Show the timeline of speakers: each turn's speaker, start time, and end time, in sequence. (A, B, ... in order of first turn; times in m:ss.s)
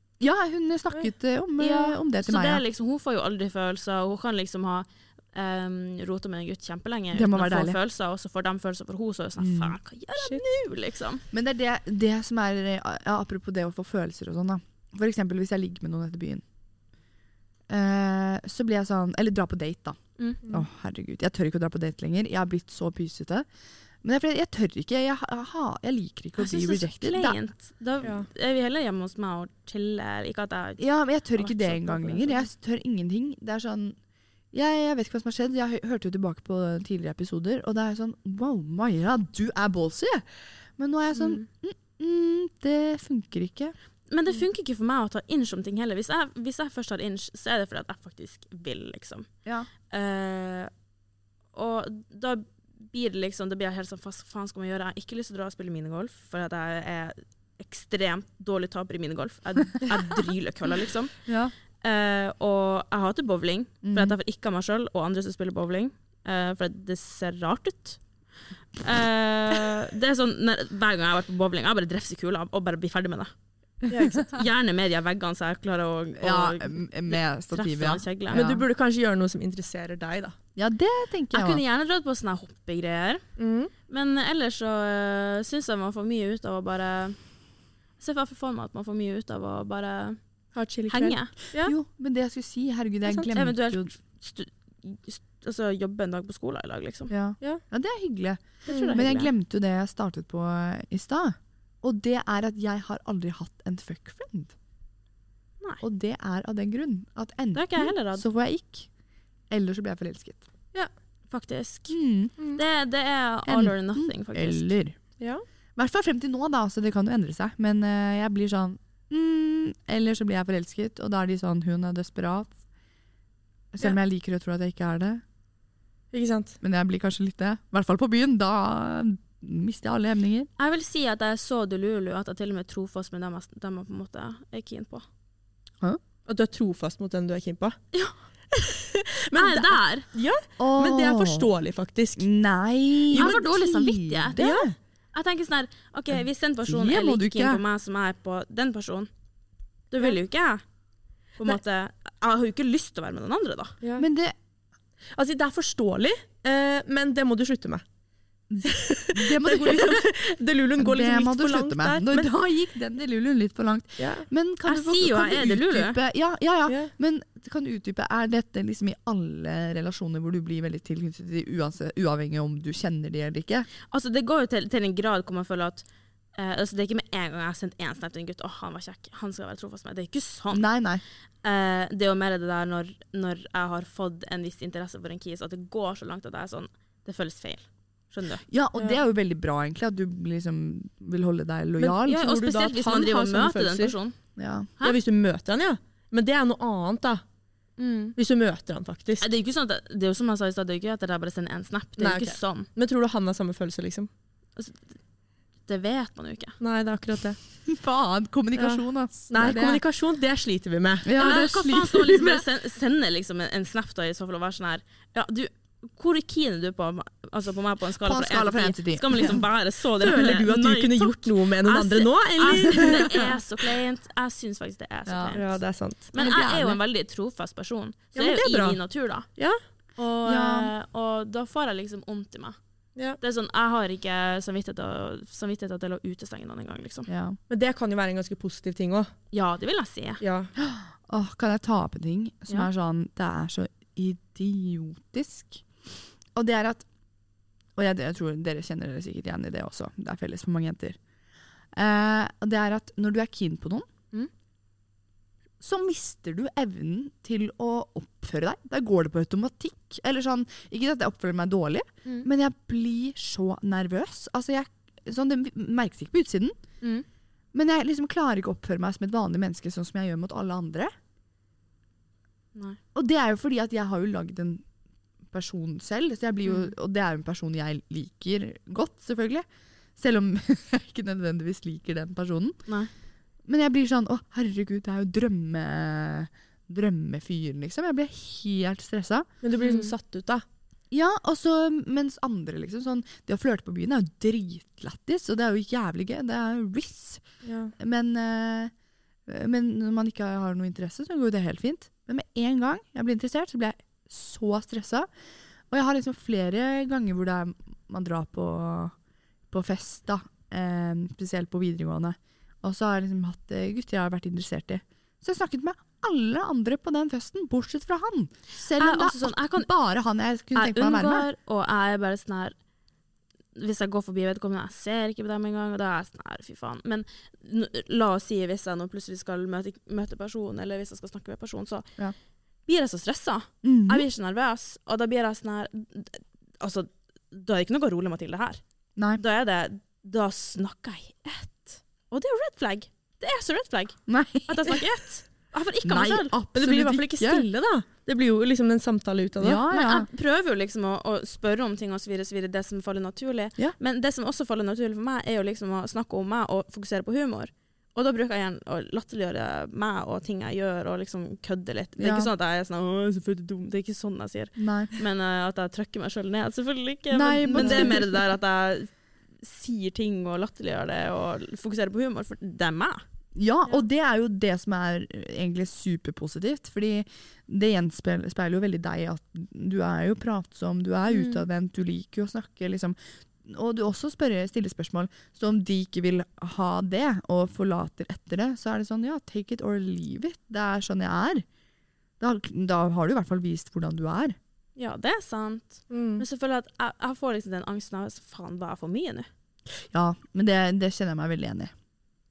0:00.2-0:02.6 A
0:01.6-0:11.2 B
0:07.1-0:07.8 A
0:09.4-0:09.8 A
0:11.3-0:16.4 A
0:17.7-0:23.5 A
0:24.0-0:27.4 A
0:26.4-0:32.5 B
0:28.0-0:28.3 C
0:30.8-0:34.0 A
0:34.5-0:43.7 A
0:41.2-0:41.4 B
0:44.1-0:49.3 B
0:49.4-0:49.7 A
0:49.9-0:50.7 B
0:51.5-1:01.1 B
1:01.3-1:01.5 A
1:01.8-1:08.0 B
1:03.8-1:04.2 A
1:08.8-1:13.3 B
1:13.9-1:14.3 C
1:14.1-1:18.6 B
1:16.2-1:18.6 A
1:18.3-1:20.4 C
1:20.6-1:21.6 A
1:21.3-1:23.2 B
1:23.4-1:23.7 C
1:23.9-1:27.2 B
1:28.0-1:30.2 B
1:30.6-1:31.7 C
1:30.9-1:31.3 B
1:31.6-1:33.9 A
1:33.3-1:37.1 B
1:37.1-1:44.5 A
1:38.7-1:39.3 B
1:38.7-1:39.0 C
1:45.8-1:48.9 A
1:47.5-1:48.2 B
1:49.5-1:50.4 A
1:51.3-1:52.0 B
1:51.9-1:52.4 A
1:52.5-1:54.7 B
1:53.5-1:55.0 A
1:55.8-2:02.6 A
2:03.7-2:05.2 A
2:06.1-2:06.6 C
2:06.6-2:10.5 A
2:10.6-2:15.1 B
2:16.3-2:17.8 C
2:18.5-2:22.3 C
2:19.3-2:20.1 B
2:20.6-2:21.5 A
2:22.2-2:24.7 A
2:23.1-2:23.4 C
2:23.1-2:24.4 B
2:24.4-2:24.7 C
2:25.1-2:29.1 B
2:26.1-2:27.6 A
2:29.9-2:30.6 B
2:31.4-2:33.8 B
2:33.8-2:34.1 C
2:34.0-2:34.3 A
2:35.2-2:37.8 C
2:38.5-2:40.1 A
2:38.6-2:42.3 C
2:40.8-2:53.7 A
2:44.0-2:44.3 C
2:44.6-2:46.0 B
2:46.7-2:46.9 C
2:53.9-3:00.7 B
3:00.5-3:01.0 A
3:01.4-3:08.4 B
3:08.5-3:12.3 A
3:11.8-3:14.0 C
3:12.0-3:14.2 B
3:14.4-3:14.7 A
3:14.8-3:17.2 C
3:17.8-3:18.2 B
3:18.2-3:19.3 C
3:19.2-3:22.7 B
3:22.0-3:24.1 C
3:24.6-3:24.8 B
3:25.7-3:26.6 B
3:26.6-3:27.4 C
3:27.7-3:29.8 A
3:28.6-3:31.4 C
3:31.0-3:32.4 A
3:31.2-3:45.6 B
3:38.0-3:39.4 A
3:40.0-3:43.4 C
3:45.1-3:45.4 A
3:45.3-3:46.1 C
3:46.1-3:49.3 B
3:46.2-3:46.8 A
3:48.2-3:48.8 C
3:50.0-3:52.6 B
3:50.2-3:50.7 A
3:53.2-3:57.1 B
3:57.1-3:57.4 A
3:57.5-3:59.1 C
3:59.3-4:00.2 B
4:00.2-4:00.5 C
4:00.6-4:05.6 A
4:06.4-4:06.9 A
4:07.8-4:11.0 A
4:11.7-4:13.9 A
4:15.6-4:26.6 A
4:27.5-4:30.9 A
4:32.9-4:34.6 A
4:35.3-4:39.4 A
4:40.0-4:42.6 A
4:43.5-4:49.3 A
4:49.4-4:50.4 C
4:49.6-4:49.9 B
4:50.9-4:57.2 A
4:57.4-4:57.7 C
4:57.8-4:58.7 A
4:59.3-5:05.1 A
5:05.7-5:08.9 A
5:09.5-5:21.3 A
5:18.8-5:19.7 B
5:20.6-5:22.6 B
5:23.6-5:31.9 B
5:32.7-5:38.6 B
5:33.6-5:34.1 A
5:39.0-5:39.2 A
5:39.2-5:46.4 B
5:44.1-5:44.8 A
5:45.8-5:47.5 A
5:46.5-5:49.6 C
5:49.4-5:50.1 A
5:49.7-6:08.9 B
6:02.0-6:02.3 A
6:04.6-6:04.9 A
6:07.1-6:08.0 A
6:07.6-6:08.0 C
6:09.4-6:13.0 B
6:13.4-6:31.5 A
6:21.1-6:21.4 B
6:32.2-6:34.4 A
6:34.8-6:39.3 B
6:35.9-6:36.2 C
6:39.9-6:41.7 A